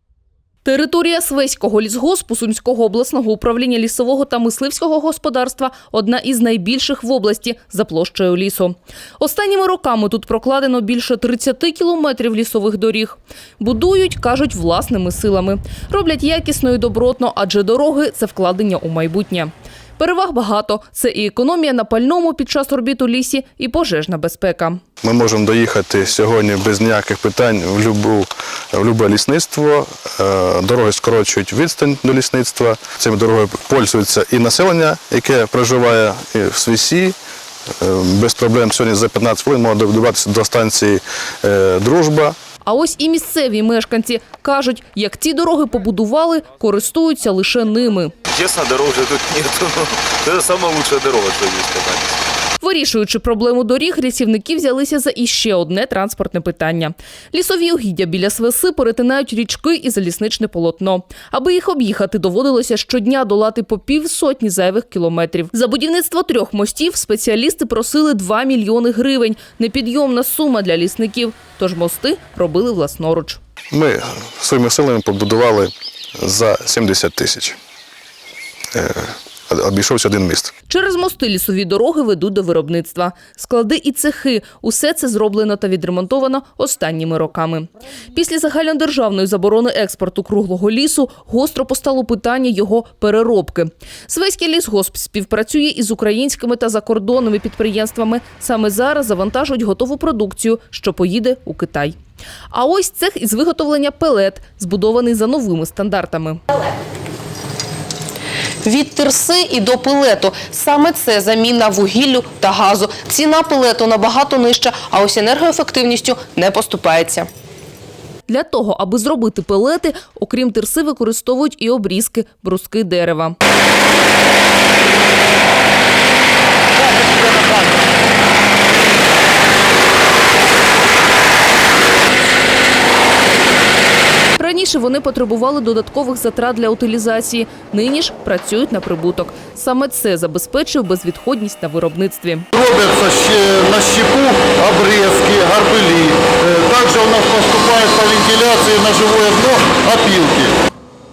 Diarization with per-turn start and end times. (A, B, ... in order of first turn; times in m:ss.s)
0:00.6-0:24.8 A
0:25.0-0:37.2 B
0:37.8-0:42.4 B
0:42.6-0:48.1 A
0:48.3-0:52.2 C
0:52.6-1:13.4 A
1:13.7-1:17.6 B
1:18.7-1:20.5 B
1:20.7-1:42.0 A
1:42.5-1:46.4 A
1:48.6-1:57.3 D
1:58.3-2:03.4 A
2:14.4-2:22.5 A
2:22.6-2:30.5 E